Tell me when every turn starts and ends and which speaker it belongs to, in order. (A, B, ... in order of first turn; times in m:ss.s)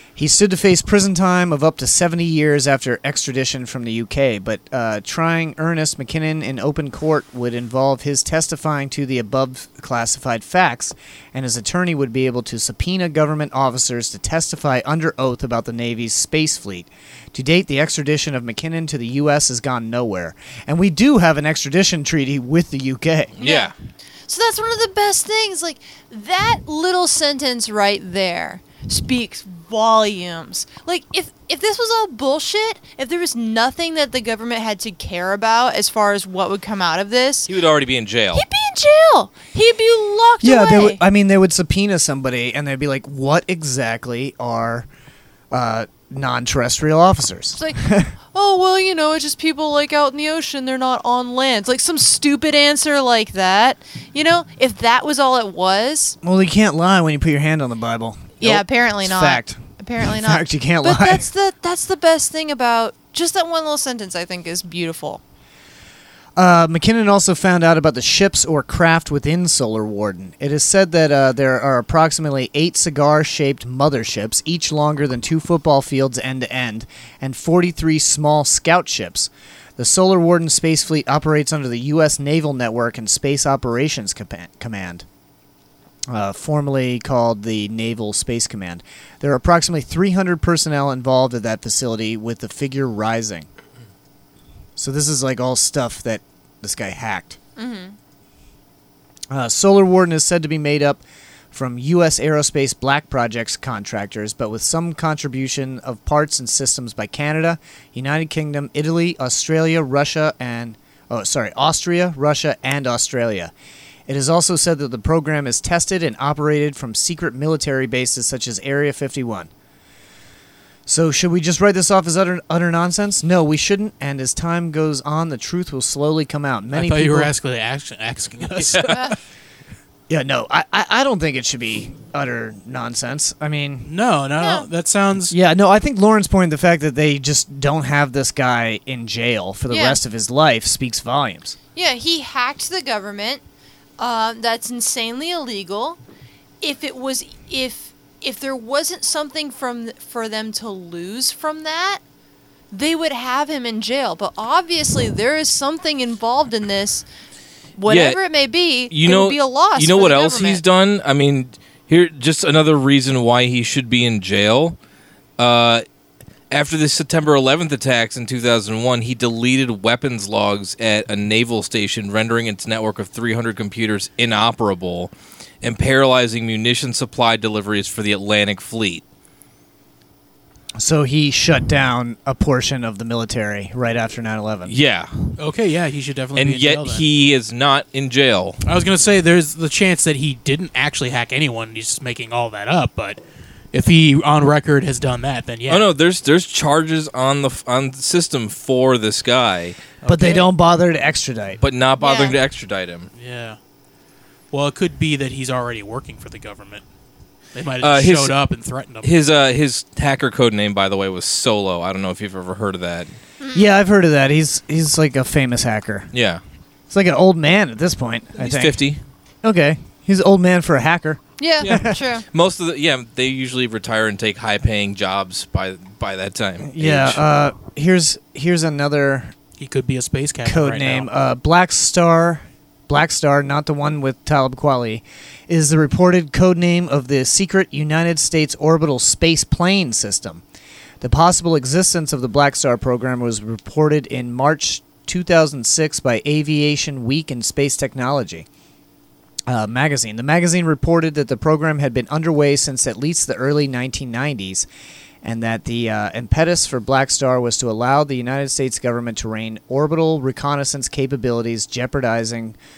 0:00.2-0:23.3 A
0:23.3-0:23.7 B
0:23.4-0:23.7 C
0:24.3-0:37.5 C
0:37.5-0:38.4 B
0:38.3-0:41.0 C
0:40.4-0:44.9 A
0:45.5-0:48.1 A
0:47.5-0:47.8 C
0:48.3-0:56.2 C
0:56.2-1:01.2 A
0:58.4-1:05.2 C
1:06.4-1:25.0 A
1:26.1-1:33.5 A
1:34.8-1:37.4 A
1:37.6-1:38.0 C
1:39.3-1:53.5 A
1:54.1-1:59.5 A
2:00.9-2:07.3 A
2:06.7-2:09.0 D
2:10.1-2:13.9 A
2:13.8-2:15.3 D
2:14.4-2:14.7 C
2:15.3-2:21.6 A
2:19.7-2:20.0 C
2:21.7-2:23.4 C
2:24.0-2:26.0 C
2:26.6-2:32.0 C
2:32.7-2:37.0 C
2:37.8-2:40.6 C
2:37.9-2:38.2 B
2:38.9-2:44.8 B
2:45.4-2:45.8 B
2:46.5-2:59.0 B
3:00.8-3:04.7 A
3:04.7-3:05.4 B
3:05.4-3:07.0 D
3:06.3-3:08.6 B
3:08.6-3:13.2 D
3:13.7-3:15.8 D
3:15.7-3:19.8 B
3:20.0-3:20.4 D
3:20.0-3:21.6 A
3:21.6-3:23.1 B
3:22.0-3:22.4 C
3:23.1-3:23.6 D
3:24.5-3:26.8 D
3:27.5-3:29.1 D
3:27.8-3:28.4 B
3:29.0-3:33.1 B
3:33.4-3:33.7 C
3:33.5-3:36.1 A
3:36.1-3:36.4 B
3:36.9-3:38.8 A
3:38.4-3:39.0 B
3:39.4-3:41.9 A
3:41.4-3:42.2 C
3:41.6-3:47.2 B
3:46.6-3:49.3 A
3:49.6-3:51.1 D
3:50.4-4:00.4 A
4:01.0-4:08.4 A
4:09.5-4:14.7 A
4:15.2-4:22.6 A